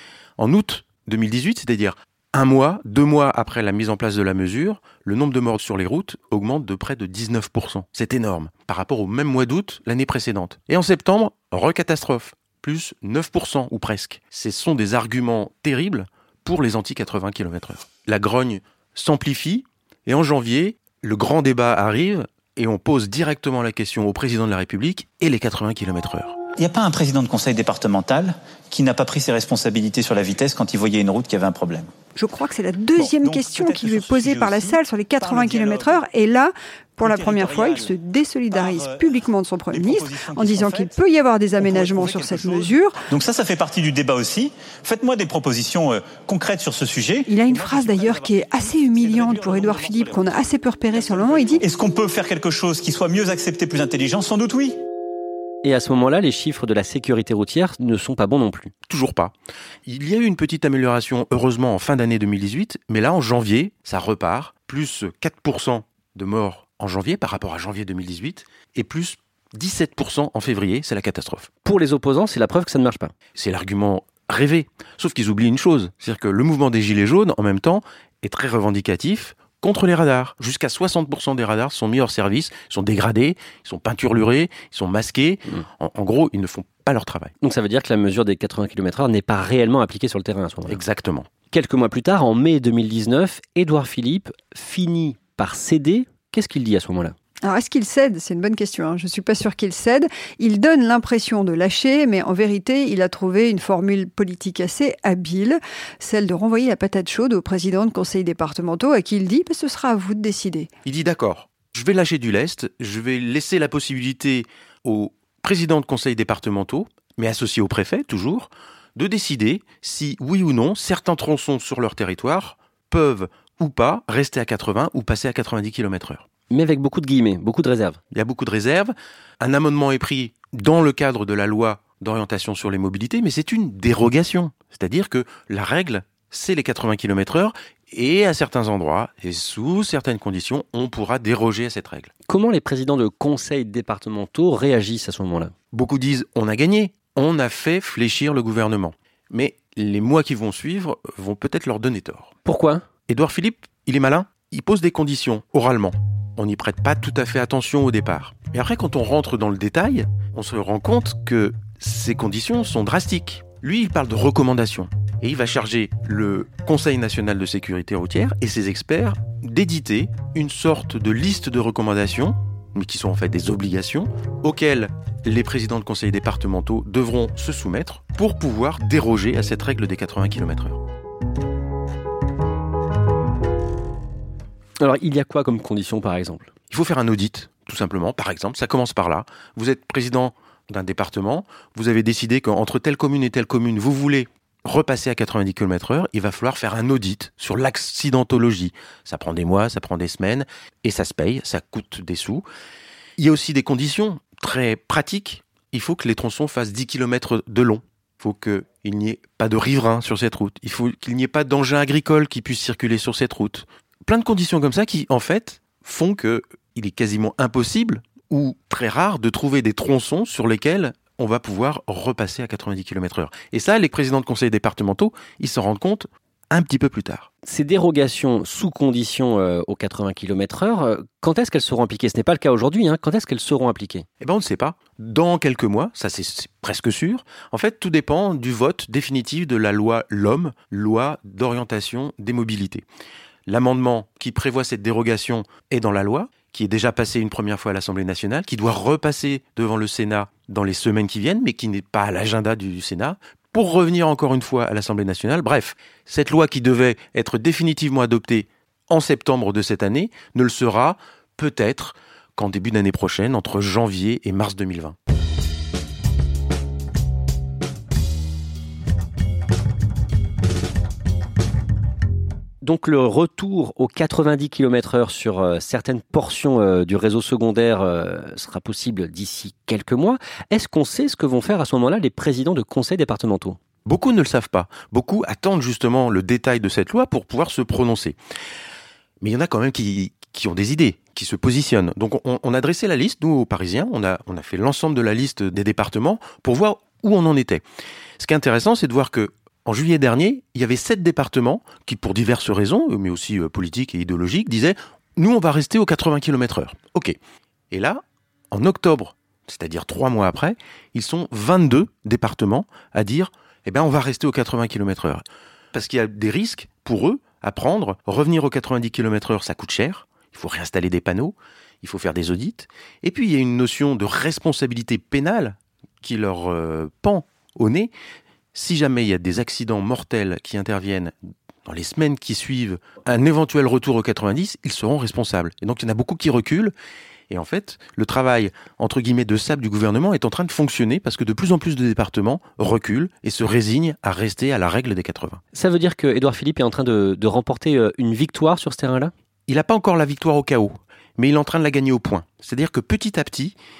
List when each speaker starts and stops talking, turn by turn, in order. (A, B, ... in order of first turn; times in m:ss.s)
0:00.4-0:26.4 A
0:26.6-0:31.9 B
0:32.2-0:43.0 C
0:33.0-0:36.0 B
0:37.0-0:37.9 B
0:38.5-0:40.9 B
0:41.6-0:54.8 B
0:47.3-0:51.6 C
0:55.6-0:58.7 D
0:58.9-0:59.3 A
0:59.8-1:11.5 A
1:11.6-1:13.1 D
1:13.4-1:27.3 A
1:27.4-1:30.8 D
1:30.7-1:31.3 A
1:31.5-1:37.1 D
1:37.4-1:50.7 C
1:50.8-2:06.2 A
2:06.5-2:08.0 D
2:08.1-2:22.1 A
2:22.2-2:25.5 D
2:25.7-2:32.3 A
2:32.4-2:32.8 D
2:33.1-3:00.8 A
3:04.8-3:06.5 D
3:06.7-3:22.4 A
3:23.2-3:47.3 A
3:47.4-3:54.0 D
3:54.2-4:02.8 A
4:03.5-4:25.0 A
4:32.6-4:43.6 D
4:43.8-4:48.2 A
4:49.2-4:57.6 A
4:58.2-5:07.2 A
5:07.7-5:27.9 A
5:28.5-5:31.1 A
5:31.6-5:36.7 A
5:37.3-5:45.4 A
5:45.5-5:49.1 D
5:49.5-5:53.6 A